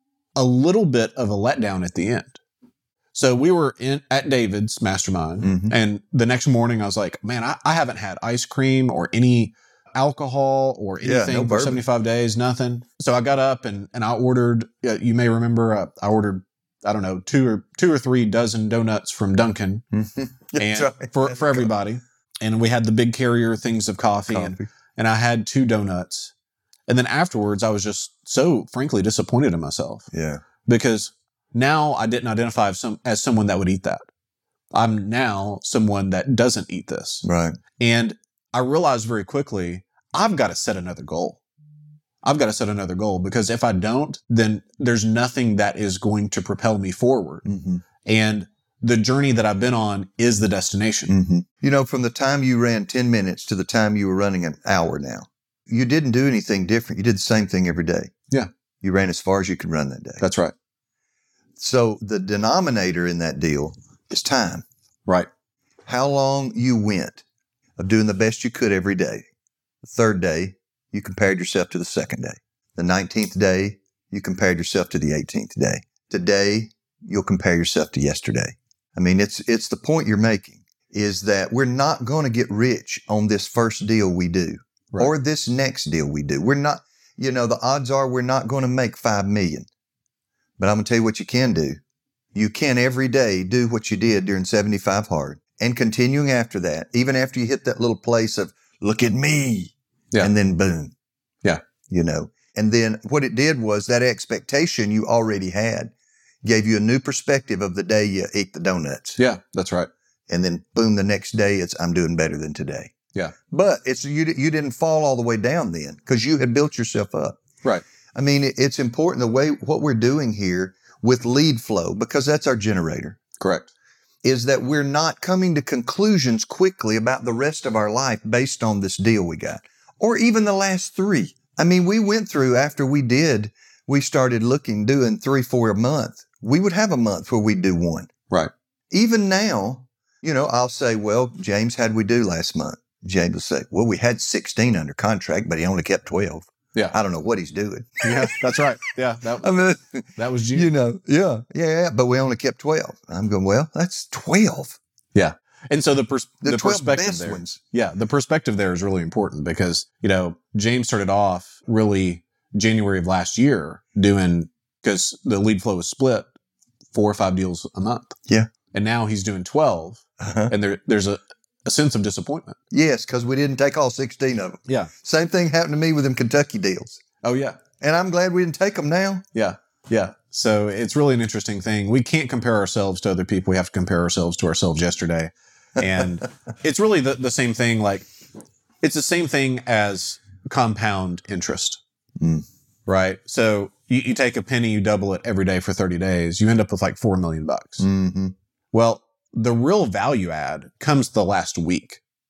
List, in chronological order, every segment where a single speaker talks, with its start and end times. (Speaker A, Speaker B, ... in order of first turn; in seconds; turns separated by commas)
Speaker A: 0.3-2.4, Speaker A: 3.1-19.8, Speaker B: 5.4-5.7, Speaker B: 11.0-11.8, Speaker B: 19.9-21.7, Speaker A: 20.6-26.3, Speaker B: 24.3-24.7, Speaker A: 26.9-30.1, Speaker B: 30.1-30.4, Speaker A: 30.6-34.0, Speaker A: 34.7-37.2, Speaker B: 37.2-37.6, Speaker A: 37.8-41.4, Speaker A: 42.2-47.5, Speaker B: 47.5-47.8, Speaker A: 48.0-51.1, Speaker B: 51.1-58.1, Speaker B: 58.8-60.2, Speaker A: 60.2-60.5, Speaker B: 61.6-64.6, Speaker B: 65.9-67.2, Speaker B: 67.8-69.2, Speaker B: 69.8-89.7, Speaker B: 90.6-91.8, Speaker B: 92.3-100.9, Speaker B: 101.9-105.9, Speaker B: 106.4-109.2, Speaker A: 109.2-109.9, Speaker B: 110.3-112.9, Speaker B: 113.5-117.4, Speaker B: 118.1-123.2, Speaker A: 123.4-123.7, Speaker B: 124.2-138.1, Speaker B: 138.9-148.3, Speaker A: 148.0-149.6, Speaker B: 149.4-154.8, Speaker A: 150.2-150.7, Speaker A: 155.1-166.3, Speaker B: 156.4-157.6, Speaker A: 166.9-168.2, Speaker A: 168.7-172.6, Speaker B: 170.2-170.5, Speaker B: 172.7-177.0, Speaker A: 177.2-177.6, Speaker B: 177.8-179.2, Speaker A: 179.3-188.1, Speaker A: 188.8-191.8, Speaker B: 192.2-192.4, Speaker A: 192.9-197.8, Speaker B: 197.8-198.3, Speaker A: 198.7-202.0